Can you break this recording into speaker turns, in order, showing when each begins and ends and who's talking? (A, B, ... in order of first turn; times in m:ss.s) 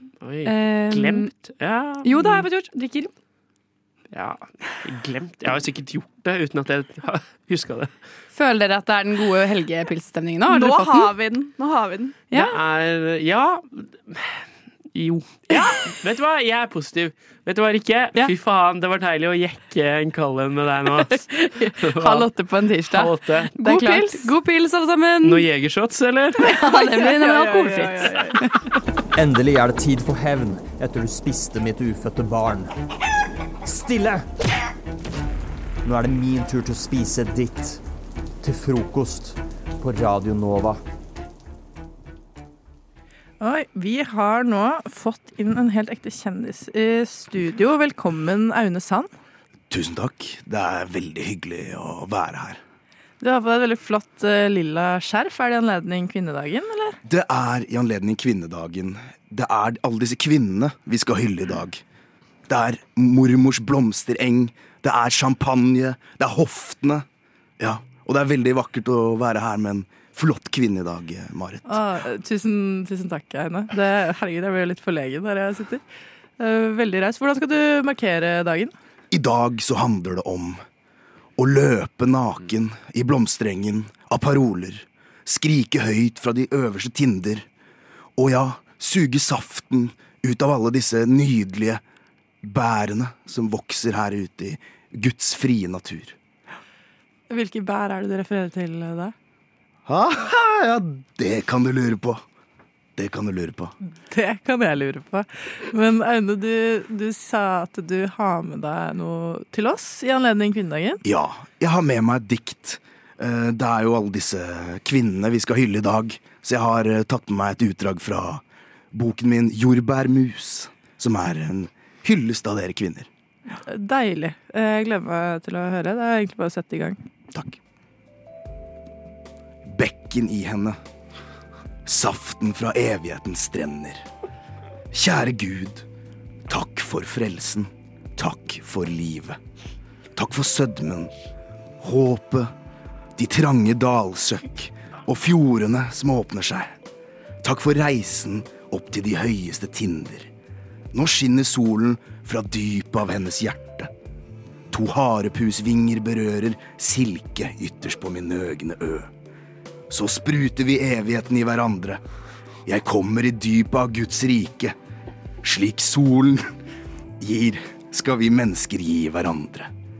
0:00.2-0:02.5 A
0:00.4-0:01.3 B
0:02.0-0:03.1 B
0:04.1-0:07.9 A
0:08.3-0:11.1 B
0:10.4-0:12.2 C
0:12.3-0:12.6 B
0:12.3-0:14.4 A
0:14.9-0:23.6 A
0:22.1-0:25.4 B
0:23.7-0:24.2 C
0:25.2-0:26.6 A
0:26.4-0:28.2 B
0:26.5-0:28.3 C
0:29.2-0:32.7 D
0:33.6-0:34.2 D
0:35.8-0:37.8 D
0:38.4-0:40.8 D
0:43.4-0:49.1 E
0:49.7-0:52.6 F
0:53.2-0:57.0 E
0:57.0-1:01.8 F
1:02.5-1:07.0 F
1:07.6-1:11.8 F
1:11.7-1:15.8 E
1:16.4-1:18.7 E
1:19.1-1:20.6 F
1:21.4-1:27.4 F
1:28.2-1:31.8 F
1:32.4-1:36.2 F
1:37.3-1:39.1 E
1:39.8-1:42.2 F
1:43.0-1:43.7 F
1:44.1-1:51.0 E
1:51.0-1:58.4 F
1:58.9-2:03.1 F
2:03.5-2:07.0 E
2:09.6-2:10.8 F
2:11.8-2:14.0 F
2:14.9-2:15.8 F
2:16.5-2:19.4 F
2:20.2-2:21.1 F
2:21.8-2:22.5 F
2:23.2-2:26.7 F
2:27.4-2:30.3 F
2:30.9-2:33.9 F
2:34.7-2:39.1 F
2:39.9-2:42.0 F
2:42.6-2:44.7 F
2:45.4-2:46.5 F
2:47.2-2:49.7 F